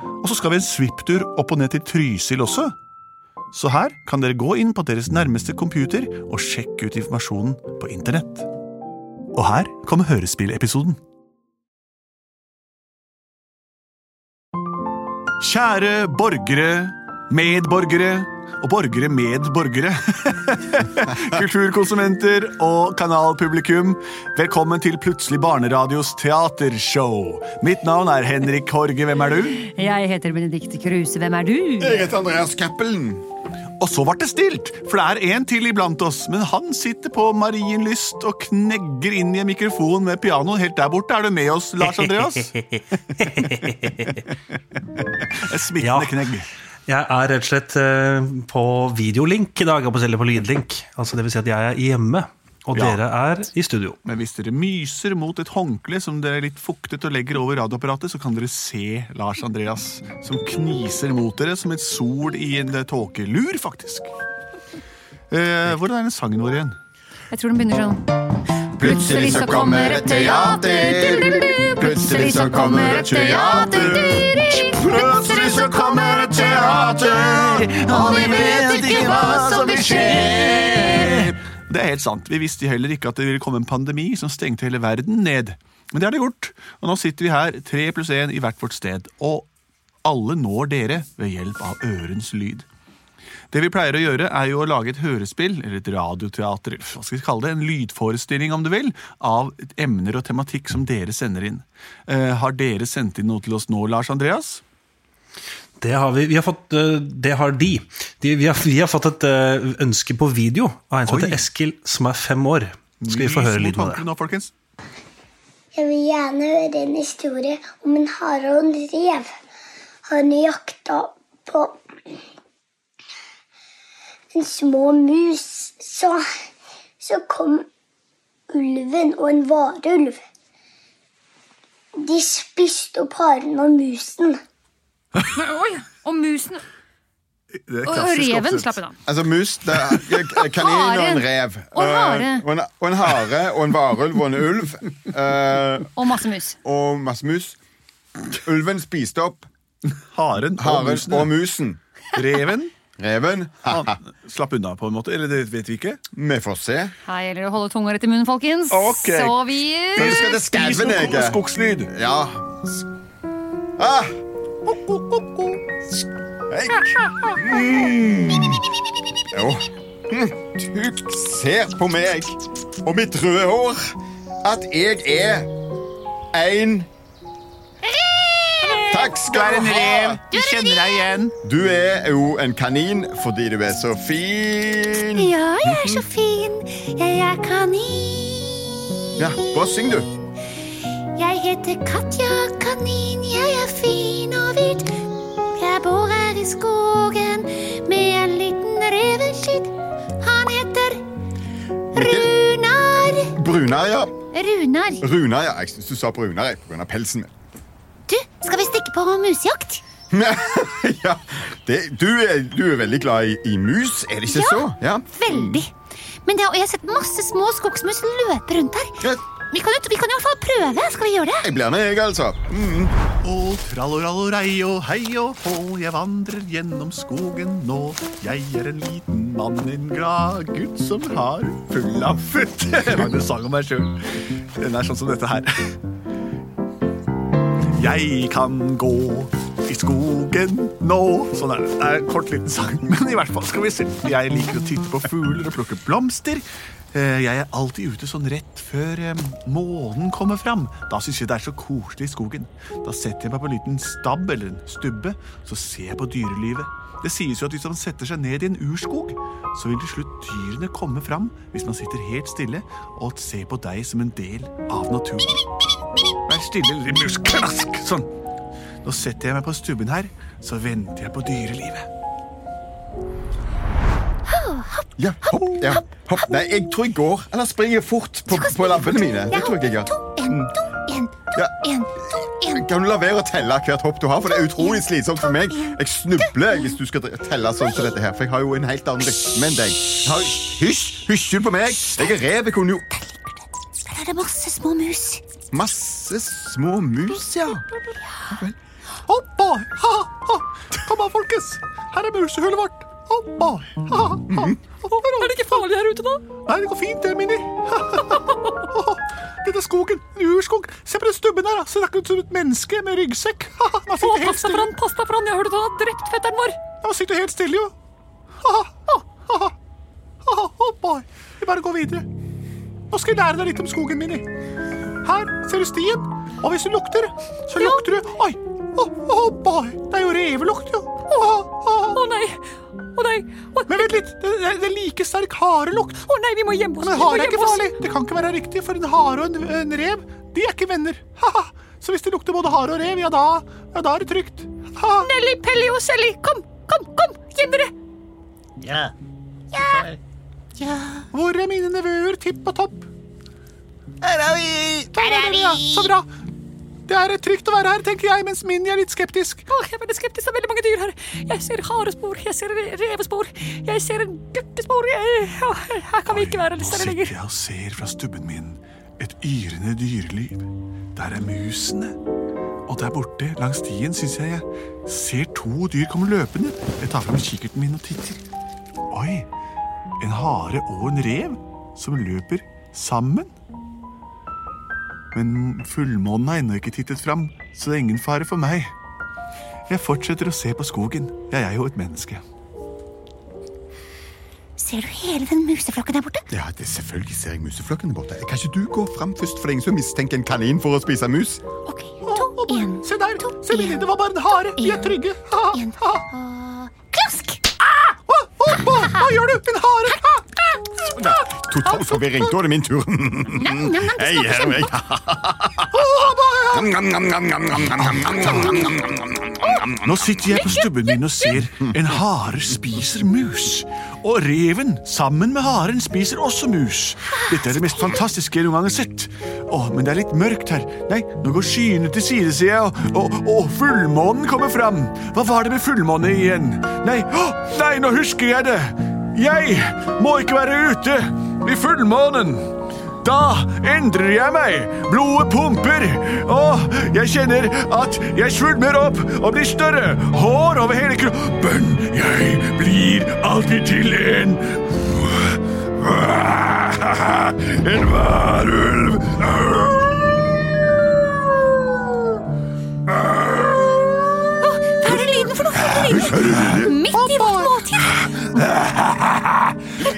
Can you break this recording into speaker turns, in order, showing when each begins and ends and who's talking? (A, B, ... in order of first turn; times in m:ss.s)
0:00.2-0:02.7 A
0:03.5-0:08.5 A
0:09.3-0:11.0 A
0:15.4-0:29.7 A
0:29.7-0:32.0 B
0:31.8-0:33.2 C
0:33.8-0:42.5 A
0:42.0-0:44.2 D
0:45.4-0:46.5 A
0:45.8-0:46.2 D
0:46.9-0:54.0 D
0:52.7-0:53.0 A
0:54.0-1:04.1 A
1:05.3-1:06.8 A
1:07.3-1:08.0 B
1:08.8-1:14.2 C
1:08.8-1:17.0 B
1:13.7-1:29.5 A
1:15.2-1:17.3 C
1:17.8-1:21.0 B
1:19.0-1:19.5 C
1:30.0-1:32.7 A
1:33.5-1:44.6 A
1:45.8-1:54.0 D
1:51.1-1:51.5 A
1:53.0-1:54.5 A
1:55.7-1:59.3 E
2:00.1-2:01.8 E
2:04.3-2:06.2 E
2:07.0-2:07.7 E
2:08.5-2:10.2 E
2:12.0-2:14.4 E
2:15.3-2:16.6 B
2:17.5-2:18.8 A
2:17.8-2:18.9 B
2:19.1-2:25.9 C
2:20.4-2:22.5 B
2:26.0-2:26.6 B
2:26.6-2:27.6 C
2:28.3-2:29.5 C
2:29.9-2:31.4 A
2:30.6-2:31.8 C
2:32.1-2:32.7 A
2:33.0-2:33.9 C
2:33.7-2:36.0 A
2:36.1-2:36.9 C
2:37.1-2:40.2 B
2:38.7-2:39.4 A
2:40.0-2:41.9 A
2:40.0-2:42.7 C
2:43.8-2:44.1 C
2:44.7-2:45.6 A
2:46.5-2:48.6 C
2:49.3-2:53.9 C
2:54.4-2:55.5 C
2:56.3-2:56.9 C
2:57.8-2:58.9 F
2:58.6-3:01.4 A
2:58.9-3:00.2 C
3:00.3-3:01.2 F
3:01.4-3:06.1 C
3:05.1-3:08.8 F
3:09.2-3:10.1 C
3:11.1-3:15.0 F
3:15.6-3:21.0 F
3:21.9-3:22.3 C
3:22.0-3:23.4 F
3:23.4-3:24.2 C
3:24.3-3:25.1 F
3:25.0-3:27.3 C
3:28.1-3:29.8 F
3:30.1-3:35.6 C
3:34.3-3:35.7 F
3:36.2-3:41.5 F
3:41.4-3:42.9 C
3:43.2-3:55.5 A
3:57.7-4:25.4 A
4:26.3-4:28.1 A
4:28.8-4:31.9 A
4:34.3-4:36.7 F
4:35.0-4:40.5 C
4:38.3-4:42.7 F
4:41.4-4:53.0 C
4:44.2-4:46.7 F
4:53.9-4:55.2 F
4:55.5-4:57.6 C
4:58.3-4:58.6 C
4:59.1-5:05.7 A
5:04.3-5:04.6 C
5:05.2-5:06.2 B
5:06.4-5:14.8 A
5:14.0-5:16.6 B
5:16.8-5:17.7 A
5:18.4-5:19.5 A
5:20.2-5:22.1 A
5:22.9-5:24.3 A
5:25.0-5:32.0 A
5:27.6-5:27.9 B
5:31.9-5:32.4 B
5:33.0-5:34.0 B
5:33.7-5:36.1 A
5:36.1-5:37.7 B
5:36.8-5:45.1 A
5:45.0-5:47.7 B
5:49.5-5:49.8 F
5:50.6-5:51.0 F
5:51.1-5:52.9 A
5:54.0-5:54.9 C
5:54.9-5:56.1 A
5:55.0-5:55.9 F
5:56.9-5:59.5 A
5:59.5-6:07.1 B
6:06.1-6:12.0 A
6:12.7-6:18.2 A
6:18.9-6:19.3 A
6:20.0-6:23.3 A
6:25.1-6:28.7 A
6:29.7-6:32.2 A
6:34.6-6:36.3 F
6:36.3-6:41.4 C
6:41.6-6:43.9 F
6:42.0-6:46.0 A
6:44.5-6:47.4 F
6:47.6-6:51.9 A
6:48.9-6:49.2 F
6:50.9-6:55.8 C
6:53.4-6:54.7 F
6:55.7-6:56.7 A
6:56.5-6:59.9 C
6:57.7-6:58.7 A
6:59.8-7:22.5 A
7:00.5-7:01.3 F
7:23.0-7:35.3 A
7:36.1-7:37.9 A
7:37.9-7:38.8 C
7:44.4-7:47.9 F
7:45.8-7:46.8 C
7:46.9-7:47.6 A
7:48.6-7:49.5 D